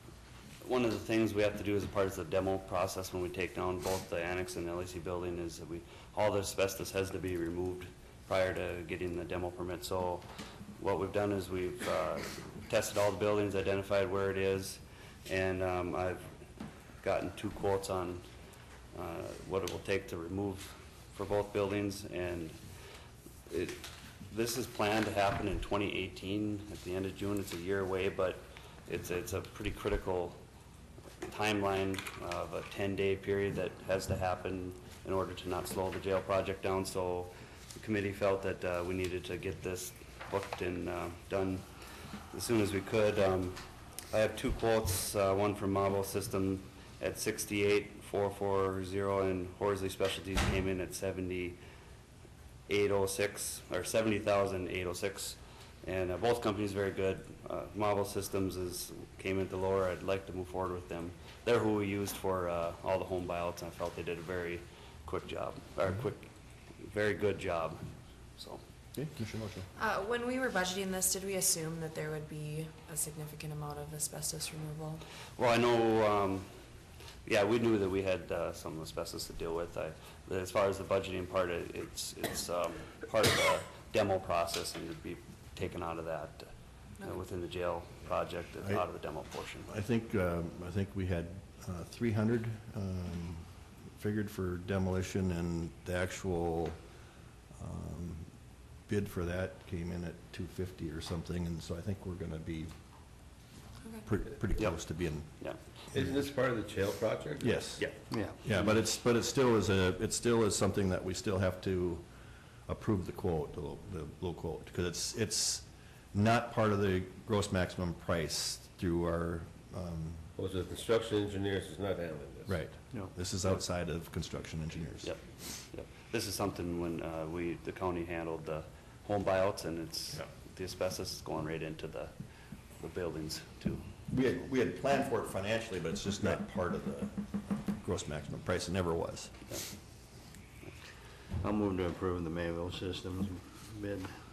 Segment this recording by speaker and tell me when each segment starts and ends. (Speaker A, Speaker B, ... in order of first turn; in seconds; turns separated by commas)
Speaker A: 0.6-10.2, Speaker A: 10.8-16.2, Speaker A: 17.0-18.2, Speaker A: 18.9-22.6, Speaker A: 23.5-30.4, Speaker A: 31.2-41.6, Speaker A: 42.3-51.6, Speaker A: 52.7-66.3, Speaker A: 66.8-67.8, Speaker A: 68.4-68.6, Speaker B: 68.9-69.7, Speaker C: 69.8-75.0, Speaker A: 75.3-76.5, Speaker A: 77.2-86.5, Speaker A: 87.0-89.7, Speaker B: 89.7-96.8, Speaker B: 97.6-98.3, Speaker B: 98.9-102.7, Speaker B: 104.1-105.4, Speaker D: 105.9-107.8, Speaker B: 107.4-112.1, Speaker B: 112.7-120.3, Speaker D: 120.4-122.6, Speaker B: 122.5-125.1, Speaker A: 125.7-132.1, Speaker A: 132.8-133.8, Speaker B: 134.1-139.3, Speaker E: 141.4-144.1